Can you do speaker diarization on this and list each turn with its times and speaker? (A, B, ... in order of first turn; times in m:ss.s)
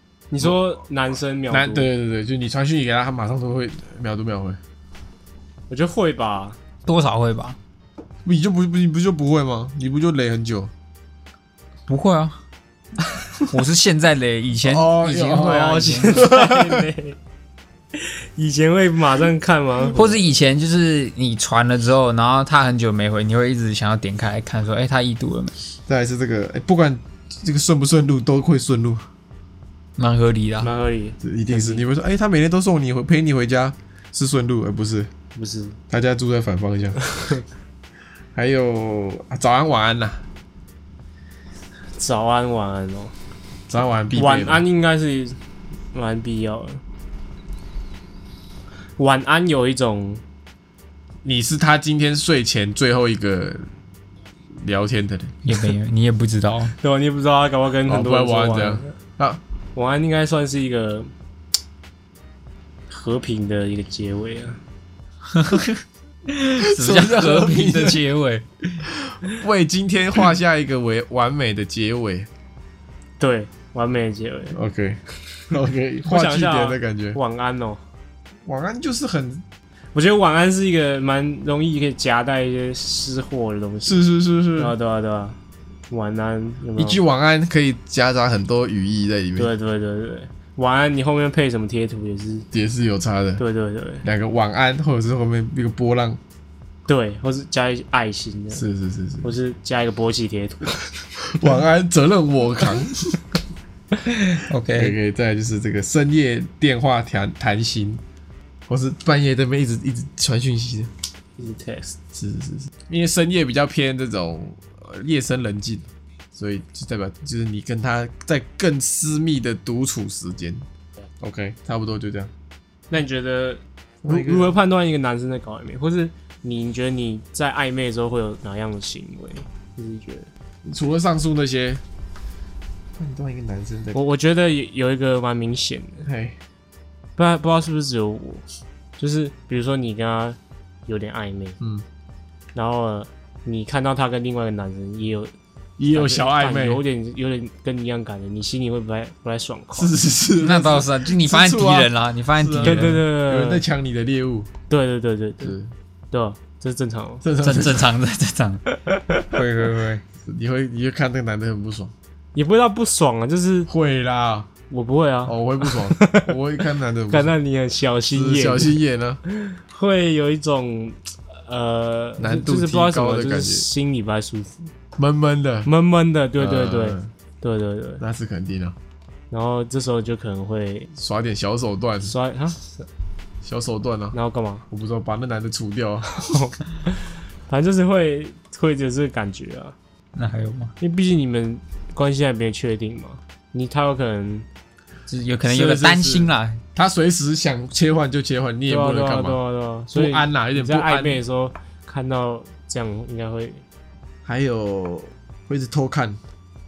0:00.3-0:01.9 A
0:01.5-0:04.6 B
0:05.7-0:06.6 A
0:06.8-0:07.6 C
0:08.2-0:10.7 B
0:11.9-0:12.4 C
0:13.4-0:16.2 C
0:14.6-0:16.9 B
0:15.4-0:17.2 A
0:17.9-0:20.2 A
0:19.9-0:25.5 C
0:25.9-0:29.0 B
0:30.0-0:30.7 C
0:30.6-0:31.8 A
0:31.2-0:35.1 B
0:35.4-0:35.8 A
0:35.9-0:37.0 B
0:37.1-0:37.4 A
0:38.3-0:40.2 B
0:42.0-0:43.1 A
0:43.7-0:44.6 B
0:44.1-0:45.4 A
0:45.9-0:46.8 A
0:49.0-0:50.2 A
0:51.2-0:53.6 B
0:54.5-0:55.5 B
0:55.4-0:56.8 C
0:56.8-0:58.9 A
0:57.8-0:59.4 B
0:59.7-1:01.1 A
1:02.9-1:04.6 A
1:05.3-1:08.8 C
1:06.6-1:08.0 B
1:08.9-1:12.3 B
1:13.2-1:14.6 A
1:14.5-1:17.2 B
1:16.0-1:17.8 A
1:18.4-1:19.4 B
1:19.9-1:25.4 A
1:23.8-1:24.7 B
1:25.9-1:27.0 A
1:26.8-1:29.5 B
1:29.4-1:32.5 A
1:32.5-1:33.4 B
1:33.4-1:34.0 A
1:34.0-1:36.2 B
1:36.9-1:38.6 A
1:38.5-1:39.3 B
1:39.2-1:40.9 A
1:41.2-1:43.2 B
1:44.0-1:45.0 C
1:44.7-1:48.0 B
1:48.7-1:50.9 B
1:51.4-1:52.0 A
1:52.1-2:00.6 B
2:01.2-2:02.3 B
2:02.9-2:10.3 A
2:04.0-2:04.6 B
2:10.6-2:11.8 B
2:13.0-2:14.0 B
2:13.9-2:16.1 A
2:16.0-2:16.4 B
2:17.2-2:18.4 A
2:19.0-2:21.6 A
2:21.6-2:21.8 B
2:22.5-2:25.3 A
2:25.8-2:26.8 B
2:25.9-2:29.9 A
2:29.7-2:34.5 B
2:30.4-2:33.0 C
2:32.6-2:33.6 A
2:34.7-2:35.5 A
2:35.4-2:35.7 B
2:36.1-2:37.2 A
2:37.2-2:37.9 B
2:37.4-2:38.6 C
2:38.7-2:39.2 A
2:39.3-2:40.0 C
2:40.2-2:41.9 B
2:42.3-2:43.7 A
2:43.7-2:44.5 B
2:44.7-2:46.3 A
2:45.2-2:47.3 B
2:47.1-2:54.7 A
2:48.1-2:49.2 B
2:52.2-2:53.7 B
2:55.0-2:55.7 B
2:55.6-2:58.0 A
2:56.4-2:57.1 B
2:58.0-2:58.7 B
2:59.3-3:00.9 A
3:01.0-3:02.1 B
3:02.0-3:02.9 A
3:03.4-3:04.2 B
3:04.1-3:04.6 A
3:04.7-3:06.3 B
3:06.1-3:09.7 A
3:10.1-3:10.7 C
3:10.8-3:14.5 A
3:15.1-3:16.6 C
3:15.4-3:19.4 B
3:18.7-3:23.6 A
3:19.9-3:21.2 B
3:24.2-3:26.2 B